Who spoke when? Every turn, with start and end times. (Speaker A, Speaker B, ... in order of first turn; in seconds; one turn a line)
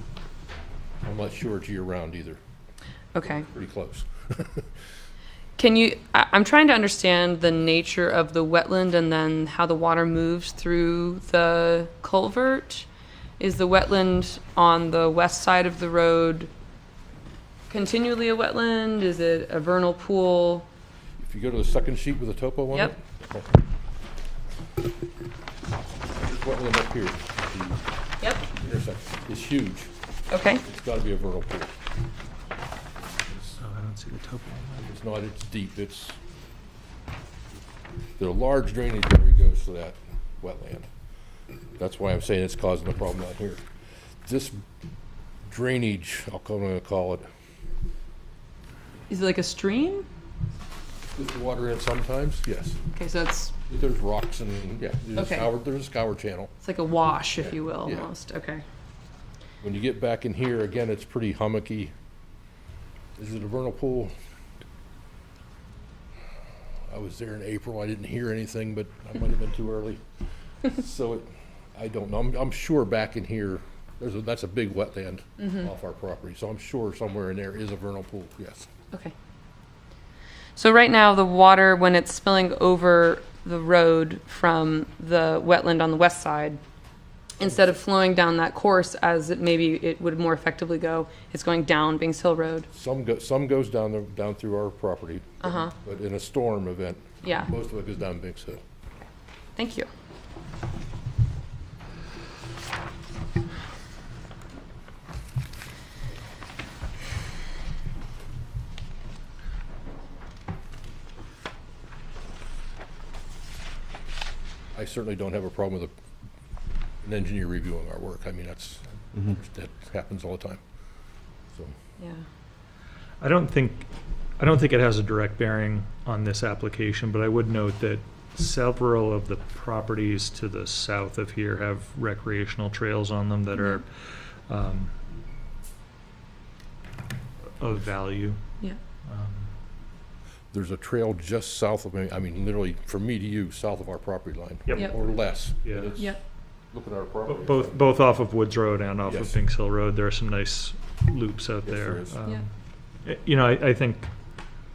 Speaker A: 1.0-2.4
Speaker B: 3.1-3.5
Speaker A: 3.2-4.7
Speaker B: 5.6-12.9
Speaker B: 13.4-16.5
Speaker B: 17.7-20.7
Speaker A: 21.2-23.6
Speaker A: 26.2-27.8
Speaker B: 28.2-28.5
Speaker A: 28.4-29.9
Speaker B: 30.3-30.6
Speaker A: 30.6-31.7
Speaker A: 33.0-33.5
Speaker C: 33.6-34.9
Speaker A: 34.8-36.2
Speaker A: 38.2-40.9
Speaker A: 41.8-43.6
Speaker A: 44.2-44.6
Speaker A: 45.5-47.2
Speaker B: 49.1-50.1
Speaker A: 51.1-52.8
Speaker B: 52.9-53.5
Speaker A: 53.6-56.5
Speaker B: 55.1-55.5
Speaker B: 56.6-58.6
Speaker A: 57.4-58.1
Speaker A: 59.6-61.9
Speaker A: 63.2-64.1
Speaker A: 66.9-70.0
Speaker A: 70.6-78.7
Speaker B: 75.4-75.6
Speaker B: 80.5-86.6
Speaker B: 87.4-92.7
Speaker A: 92.7-98.6
Speaker B: 95.4-95.7
Speaker B: 97.2-97.5
Speaker B: 99.5-99.9
Speaker A: 114.7-115.9
Speaker A: 117.0-120.6
Speaker B: 122.0-122.2
Speaker C: 123.2-123.9
Speaker C: 124.4-134.9
Speaker B: 133.5-133.8
Speaker C: 137.6-138.4
Speaker C: 139.1-139.5
Speaker A: 140.5-146.1
Speaker C: 144.7-145.9
Speaker B: 145.9-146.2
Speaker A: 146.7-147.8
Speaker C: 147.3-152.5
Speaker A: 149.0-149.4
Speaker A: 151.6-152.2
Speaker C: 153.0-154.1